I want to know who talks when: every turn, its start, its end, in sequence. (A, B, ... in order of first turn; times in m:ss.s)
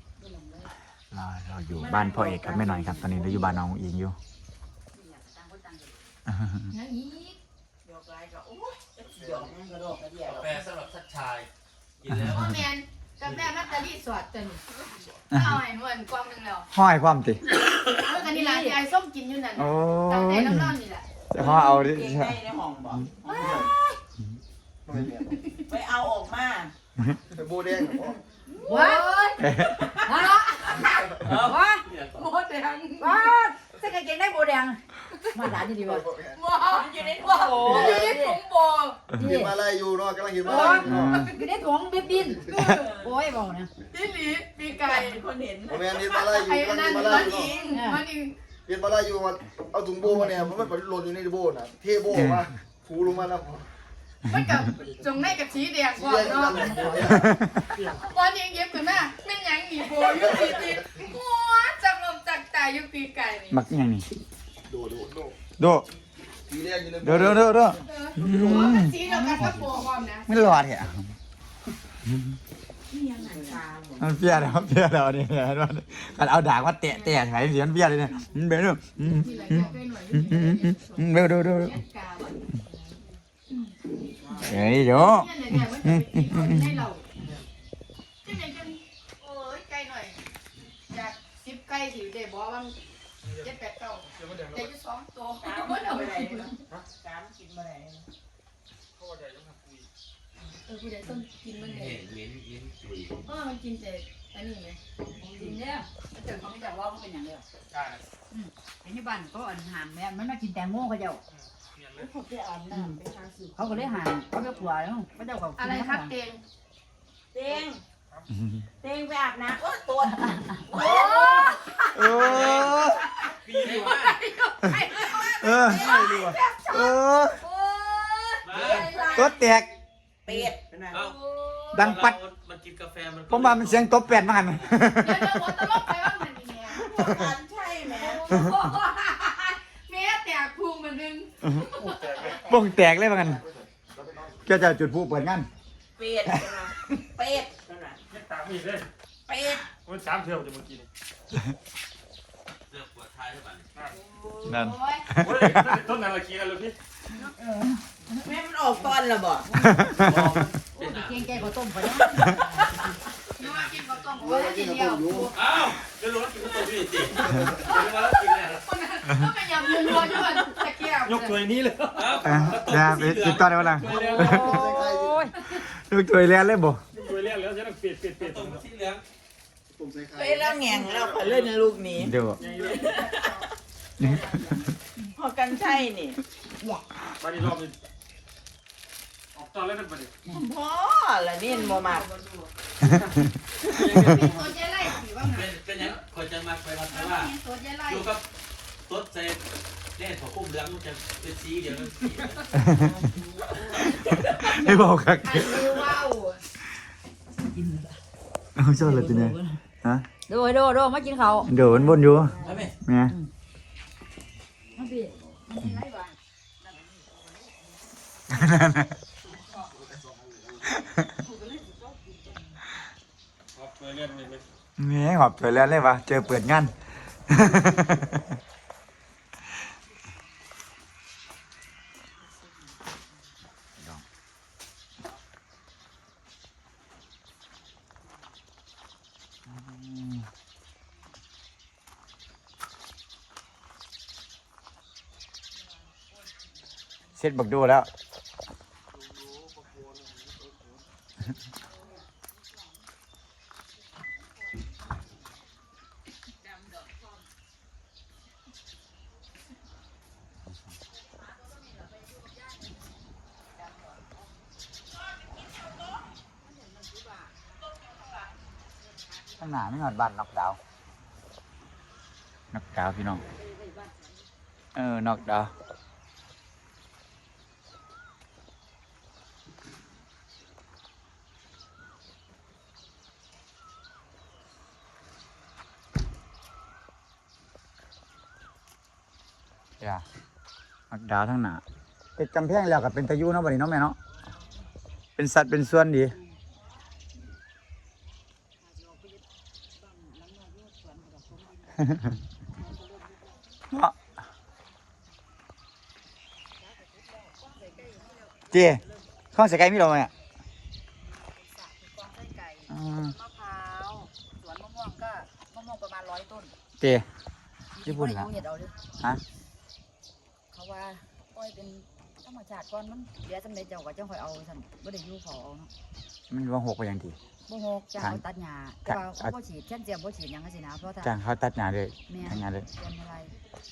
0:00.2-0:00.7 A
0:01.1-0:04.2 B
0:01.8-0:03.6 C
0:04.9-0:06.1 A
0:06.3-0:06.7 B
0:06.7-0:07.4 D
0:07.8-0:10.5 C
0:10.2-0:11.5 E
0:12.0-0:12.6 E
0:12.3-0:14.6 D
0:15.2-0:16.7 D
0:16.7-0:17.4 B
0:17.9-0:21.0 D
0:18.1-0:18.8 A
0:19.6-0:20.8 B
0:21.3-0:22.4 B
0:21.4-0:23.5 C
0:23.2-0:24.0 D
0:23.4-0:23.7 F
0:24.8-0:25.4 F
0:25.7-0:26.7 C
0:27.3-0:28.2 F
0:28.6-0:31.2 D
0:28.6-0:29.1 A
0:29.4-0:29.8 B
0:30.0-0:30.4 A
0:31.2-0:31.8 A
0:31.2-0:32.2 E
0:32.2-0:33.3 D
0:33.0-0:36.1 A
0:35.9-0:36.4 F
0:36.3-0:39.1 D
0:36.6-0:37.8 C
0:37.5-0:38.4 A
0:37.7-0:38.1 F
0:39.1-0:39.6 A
0:39.2-0:41.1 F
0:40.4-0:40.9 D
0:40.4-0:43.7 A
0:40.8-0:41.3 B
0:42.5-0:42.9 D
0:43.9-0:45.3 D
0:44.6-0:45.9 C
0:45.7-0:47.5 F
0:45.9-0:48.3 D
0:47.1-0:47.8 C
0:47.7-0:48.0 A
0:48.7-0:53.6 F
0:52.1-0:52.5 B
0:54.2-0:56.7 D
0:56.0-0:57.3 F
0:56.5-0:57.2 A
0:57.0-0:57.8 B
0:57.7-0:58.0 G
0:58.0-1:03.6 D
1:03.5-1:04.1 B
1:04.7-1:05.3 F
1:05.6-1:05.9 B
1:06.5-1:07.2 F
1:07.0-1:09.6 B
1:07.8-1:10.6 D
1:09.0-1:09.5 A
1:10.3-1:11.1 B
1:12.0-1:12.4 B
1:12.9-1:14.2 C
1:14.0-1:21.8 B
1:16.9-1:17.1 D
1:19.1-1:22.4 D
1:23.5-1:23.7 D
1:24.2-1:24.5 G
1:24.4-1:26.8 B
1:24.6-1:27.0 D
1:28.2-1:30.2 D
1:30.9-1:32.8 D
1:33.2-1:33.5 G
1:33.3-1:36.6 D
1:34.1-1:34.7 G
1:35.4-1:38.0 C
1:39.0-1:39.9 G
1:40.6-1:42.0 D
1:41.6-1:43.2 E
1:43.2-1:44.8 D
1:45.2-1:45.7 C
1:45.4-1:46.4 D
1:46.2-1:47.4 A
1:47.7-1:48.0 G
1:48.3-1:51.2 A
1:51.4-1:52.1 G
1:51.9-1:54.0 C
1:52.7-1:53.0 A
1:53.6-1:56.1 A
1:55.6-1:56.4 D
1:57.3-1:57.8 C
1:58.3-1:58.6 B
1:58.8-2:01.5 C
2:00.7-2:06.9 D
2:01.9-2:03.0 B
2:02.0-2:02.9 E
2:03.4-2:04.1 E
2:05.0-2:06.5 C
2:05.4-2:06.2 B
2:06.7-2:07.4 B
2:07.6-2:09.4 D
2:08.4-2:09.2 C
2:08.4-2:09.0 E
2:09.1-2:09.7 B
2:10.2-2:11.1 C
2:10.9-2:14.8 E
2:11.7-2:12.2 B
2:13.3-2:16.1 B
2:15.0-2:16.9 D
2:16.7-2:18.3 C
2:17.5-2:22.3 D
2:21.8-2:22.4 G
2:22.4-2:23.4 B
2:23.5-2:24.3 F
2:24.4-2:25.5 B
2:26.0-2:28.0 C
2:28.1-2:28.9 G
2:29.3-2:29.7 C
2:29.8-2:30.9 G
2:32.7-2:33.7 E
2:34.0-2:34.4 C
2:34.4-2:35.2 D
2:34.4-2:35.8 B
2:35.2-2:36.7 G
2:37.2-2:37.7 A
2:38.2-2:39.5 C
2:39.6-2:40.4 B
2:39.9-2:41.6 E
2:40.7-2:42.9 A
2:43.4-2:44.2 E
2:43.4-2:45.5 D
2:44.2-2:45.3 F
2:45.3-2:48.7 E
2:47.6-2:51.4 D
2:49.7-2:50.6 C
2:51.0-2:52.6 G
2:51.9-2:53.9 E
2:52.2-2:54.5 B
2:53.8-2:54.3 G
2:53.9-2:55.4 A
2:54.2-2:55.2 F
2:55.5-2:56.8 B
2:56.9-2:58.6 G
2:58.2-2:59.0 E
3:00.1-3:02.1 C
3:02.0-3:02.4 B
3:02.4-3:02.8 G
3:02.6-3:03.4 C
3:04.0-3:04.3 B
3:05.2-3:06.2 C
3:07.2-3:07.8 G
3:09.3-3:10.1 G
3:10.3-3:12.1 C
3:11.4-3:12.5 D
3:13.7-3:14.5 E
3:13.8-3:15.5 D
3:13.9-3:14.2 B
3:15.2-3:18.2 E
3:16.9-3:18.1 D
3:18.9-3:19.4 E
3:20.0-3:22.6 E
3:22.6-3:22.9 B
3:24.1-3:24.5 D
3:24.4-3:25.8 B
3:25.2-3:26.4 D
3:27.4-3:28.0 A
3:28.6-3:30.0 B
3:28.8-3:29.6 A
3:30.3-3:31.5 A
3:31.4-3:33.1 B
3:32.4-3:32.7 E
3:34.7-3:36.1 A
3:35.6-3:35.8 B
3:38.4-3:38.9 B
3:43.6-3:44.4 G
3:44.8-3:46.8 B
3:47.3-3:48.2 B
3:53.8-3:54.0 B
3:59.5-4:00.2 B
4:07.2-4:07.9 B
4:29.4-4:30.6 B
4:32.5-4:33.2 B
4:33.4-4:34.1 A
4:34.7-4:35.5 B
4:50.9-4:51.6 B
4:52.2-4:54.0 B
4:55.2-4:56.2 B
4:59.8-5:01.6 A
5:07.6-5:08.4 A
5:08.5-5:10.1 B
5:11.4-5:16.5 A
5:12.7-5:13.2 B
5:16.8-5:17.1 B
5:17.7-5:18.8 A
5:17.8-5:18.3 B
5:20.5-5:25.7 A
5:26.3-5:27.2 B
5:27.5-5:31.1 A
5:28.8-5:29.3 B
5:31.0-5:32.7 B
5:32.1-5:33.3 A